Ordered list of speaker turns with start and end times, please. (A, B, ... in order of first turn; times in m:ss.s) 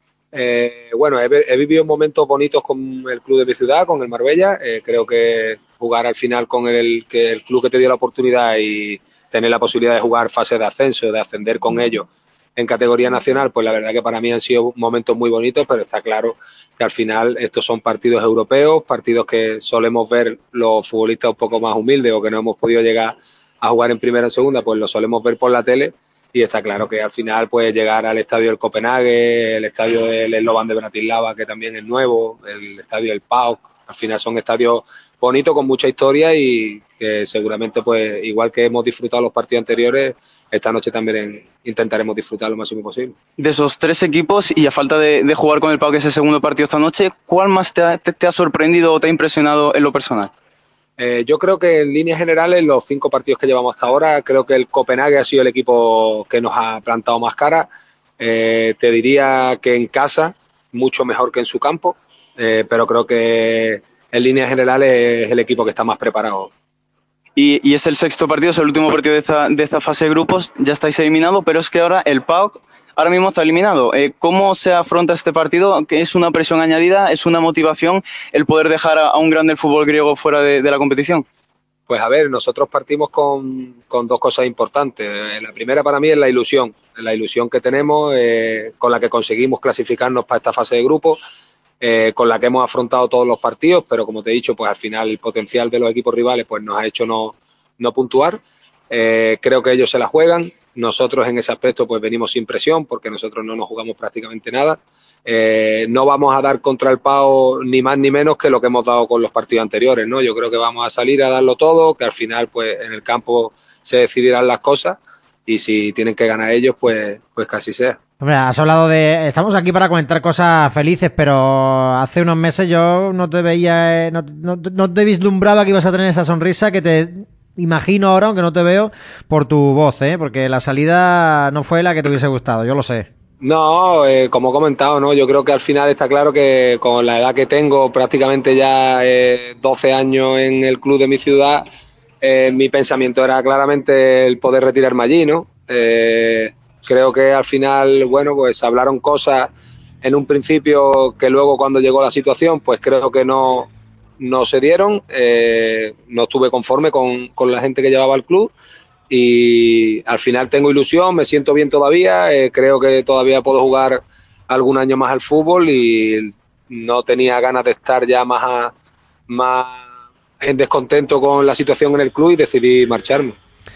0:00.3-0:43.2 A
0:43.4-0:50.3 B
0:51.0-1:06.5 A
1:07.4-1:21.2 B
1:21.9-1:31.2 A
1:31.8-1:58.0 A
1:58.2-2:13.1 C
2:13.4-2:21.7 A
2:22.2-2:29.5 A
2:30.0-2:38.5 A
2:39.1-2:48.7 A
2:49.3-2:49.8 A
2:50.4-2:53.4 A